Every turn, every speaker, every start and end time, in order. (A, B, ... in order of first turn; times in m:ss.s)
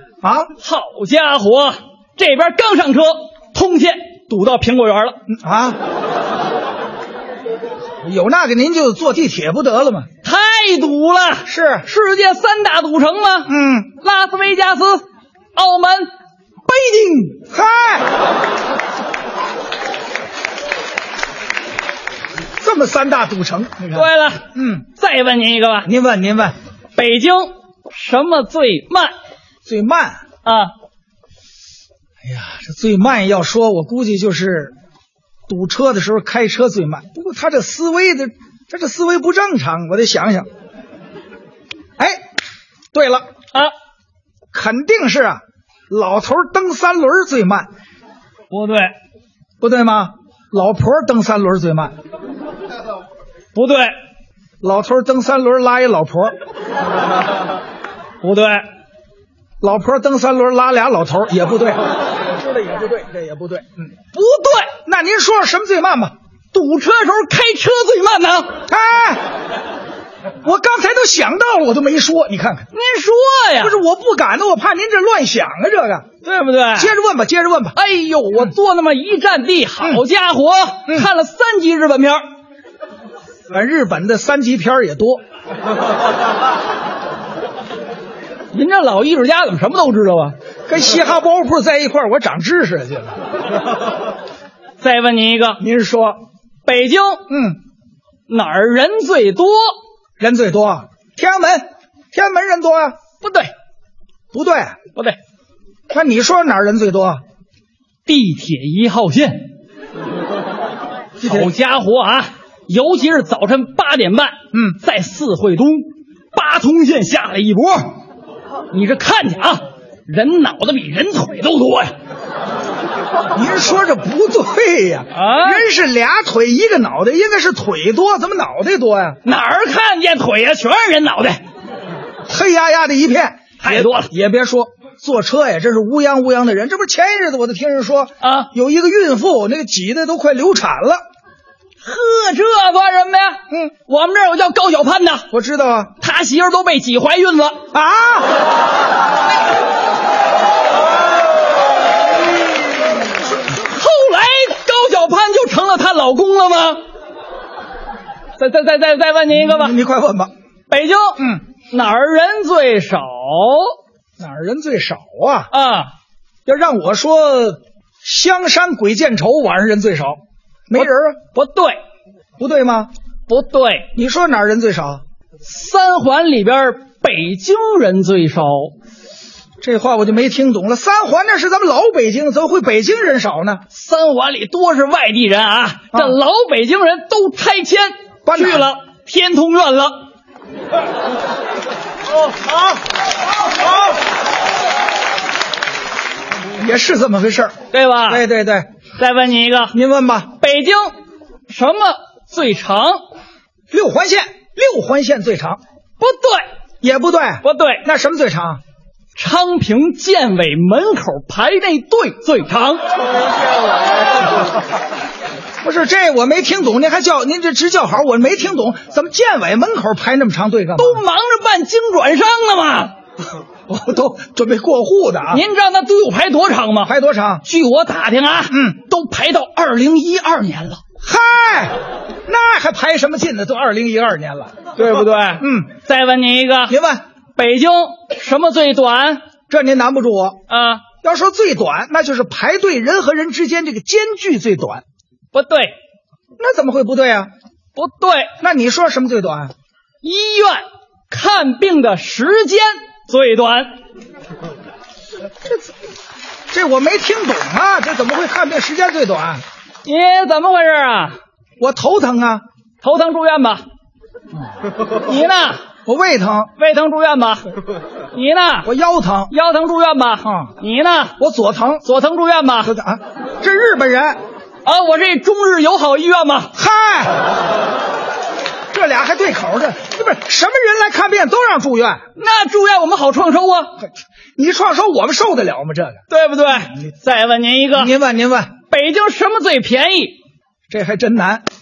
0:00.2-0:00.5 A
0:00.6-0:05.2 B
0:05.3-0:05.8 A
0:08.0-0:10.1 A
0:10.2-0:15.0 B
0:11.4-0:11.8 A
0:13.5-0:13.9 A
0:15.6-0:16.1 B
0:16.7-0:17.4 B
0:17.3-0:18.0 A
0:22.6-0:24.8 A
0:23.9-0:25.9 B
0:25.8-0:26.5 A
0:27.0-0:29.1 B
0:29.6-0:30.2 A
0:30.4-0:30.7 B
0:32.2-0:34.7 A
0:35.5-0:40.5 A
0:42.0-0:42.2 A
0:42.9-0:43.3 A
0:44.5-0:47.7 A
0:48.5-0:48.9 B
0:49.6-0:51.9 A
0:53.5-0:53.9 B
0:54.6-0:56.4 A
0:58.2-0:58.6 B
0:59.6-1:03.9 A
1:04.1-1:04.7 B
1:04.8-1:06.1 A
1:06.5-1:08.6 B
1:08.7-1:09.2 A
1:10.4-1:12.7 A
1:12.7-1:13.8 B
1:13.6-1:16.1 A
1:16.2-1:16.9 B
1:16.8-1:17.7 A
1:17.8-1:22.2 B
1:23.5-1:25.2 A
1:28.5-1:30.3 B
1:30.7-1:33.2 A
1:34.8-1:35.6 B
1:35.6-1:36.2 A
1:36.6-1:37.2 B
1:37.3-1:37.6 A
1:38.3-1:39.7 B
1:40.2-1:43.0 A
1:43.2-1:43.5 B
1:44.3-1:44.8 A
1:45.9-1:47.2 A
1:48.0-1:49.5 B
1:51.2-1:51.5 A
1:51.2-1:57.9 B
1:58.7-2:01.9 B
2:03.3-2:09.2 A
2:05.1-2:05.6 B
2:09.2-2:11.4 B
2:12.3-2:21.0 A
2:13.6-2:14.1 B
2:18.2-2:18.5 B
2:21.8-2:25.3 B
2:25.3-2:25.9 A
2:26.0-2:27.6 B
2:27.7-2:28.3 A
2:33.5-2:36.8 B
2:38.4-2:39.7 B
2:39.3-2:40.3 A
2:40.7-2:43.7 B
2:44.2-2:45.5 A
2:45.5-2:45.9 B
2:46.4-2:51.2 A
2:50.8-2:51.8 B
2:52.4-2:52.9 A
2:53.3-2:53.9 B
2:53.9-2:55.0 A
2:55.4-2:58.7 B
2:59.6-3:03.6 A
3:03.7-3:10.0 B
3:08.2-3:08.7 A
3:16.6-3:17.6 A
3:17.7-3:18.2 B
3:18.1-3:18.7 A
3:19.0-3:19.7 B
3:19.7-3:20.3 A
3:20.4-3:20.9 B
3:21.5-3:23.0 B
3:23.7-3:25.6 A
3:26.0-3:26.4 B
3:26.8-3:28.6 A
3:27.4-3:27.8 B
3:29.2-3:32.8 B
3:35.6-3:41.0 A
3:40.8-3:42.9 B
3:43.7-3:45.4 A
3:45.3-3:46.9 B
3:46.8-3:47.4 A
3:47.4-3:50.8 B
3:48.5-3:48.8 A
3:51.0-3:54.7 A
3:54.8-3:56.7 B
3:55.4-3:55.7 A
3:56.7-3:57.0 A
3:57.4-3:59.2 B
3:59.5-4:00.4 A
4:00.5-4:00.8 B
4:01.0-4:04.8 A
4:05.3-4:05.7 B
4:06.4-4:07.3 A
4:07.8-4:08.3 B
4:08.4-4:09.5 A
4:10.0-4:13.7 B
4:15.4-4:15.7 A
4:16.5-4:19.4 A
4:19.8-4:21.2 B
4:21.6-4:22.4 A
4:22.8-4:23.6 B
4:25.0-4:25.6 B
4:25.8-4:26.5 A
4:26.6-4:27.4 B
4:28.1-4:28.7 B
4:28.6-4:29.3 A
4:29.3-4:31.2 B
4:30.2-4:30.5 A
4:31.2-4:31.8 A
4:31.8-4:32.7 B
4:32.6-4:34.2 A
4:34.6-4:36.5 B
4:36.5-4:37.2 A
4:38.7-4:42.0 A
4:42.2-4:43.7 B
4:44.4-4:46.0 A
4:46.1-4:47.9 B
4:47.7-4:48.5 A
4:48.7-4:50.1 B
4:50.7-4:51.4 A